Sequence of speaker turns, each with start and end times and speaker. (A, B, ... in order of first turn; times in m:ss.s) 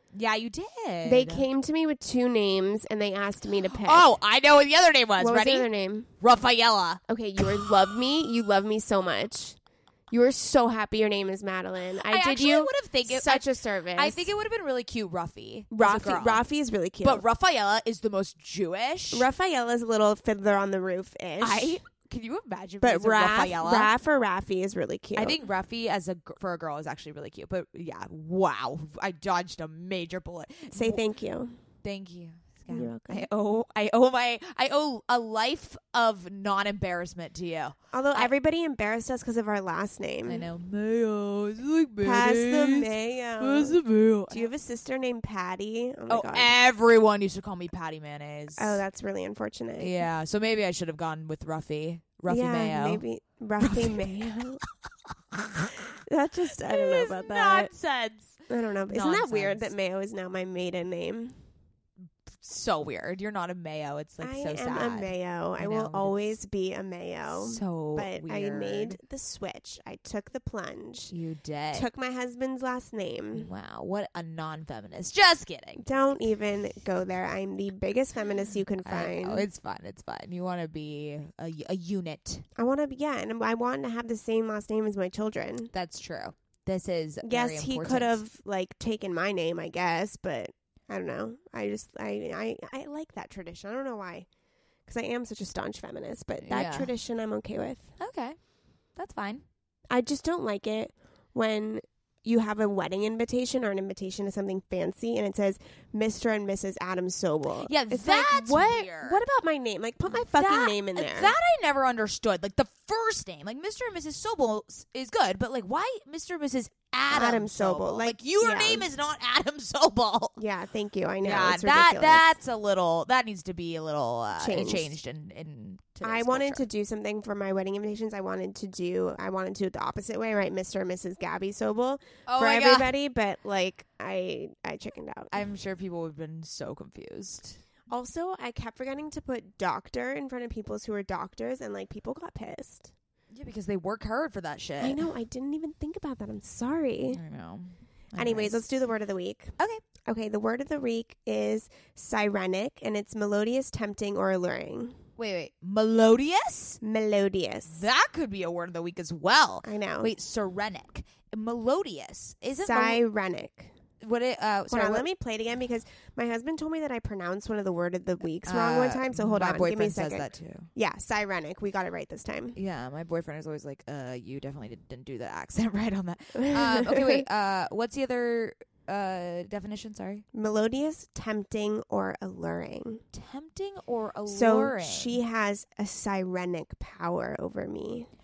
0:00.1-0:01.4 A
0:01.0-0:04.0 B
0:03.8-0:07.7 A
0:05.2-0:06.1 B
0:07.1-0:14.3 B
0:12.1-0:16.4 A
0:15.7-0:17.2 B
0:17.0-0:19.2 A
0:19.1-0:21.8 B
0:21.4-0:23.9 A
0:22.8-0:25.4 B
0:25.1-0:31.0 A
0:30.7-0:31.6 B
0:31.8-0:38.3 A
0:32.7-0:33.3 B
0:37.9-0:40.5 B
0:40.2-0:44.5 A
0:42.0-0:46.5 B
0:46.1-0:48.8 A
0:48.6-0:49.9 B
0:49.8-0:53.0 A
0:52.3-0:54.6 B
0:53.6-0:54.0 A
0:55.1-0:55.8 A
0:56.0-0:57.7 B
0:56.6-0:59.7 A
0:58.5-1:01.4 B
1:02.4-1:06.4 A
1:04.2-1:11.1 B
1:07.3-1:09.0 A
1:11.1-1:11.9 A
1:11.7-1:13.5 B
1:13.3-1:16.2 A
1:15.8-1:19.5 B
1:18.8-1:22.4 A
1:22.6-1:25.7 B
1:25.7-1:28.2 A
1:27.2-1:37.9 B
1:36.4-1:36.9 A
1:38.0-1:39.4 A
1:39.9-1:51.3 B
1:47.6-1:49.2 A
1:50.3-2:00.4 A
1:57.1-1:58.9 B
2:00.4-2:02.4 B
2:01.2-2:06.6 A
2:04.4-2:04.9 B
2:06.0-2:15.3 B
2:12.2-2:12.9 A
2:15.3-2:17.6 A
2:17.9-2:22.9 B
2:23.3-2:25.0 A
2:24.8-2:27.2 B
2:27.1-2:28.7 A
2:28.2-2:35.0 B
2:35.2-2:36.8 A
2:36.8-2:37.8 B
2:37.7-2:43.0 A
2:39.6-2:40.1 B
2:42.6-2:43.8 B
2:44.0-2:45.1 A
2:44.7-2:52.6 B
2:48.4-2:50.7 A
2:52.6-3:00.2 A
2:56.4-2:57.2 B
3:00.3-3:03.0 B
3:03.1-3:05.2 A
3:04.3-3:08.1 B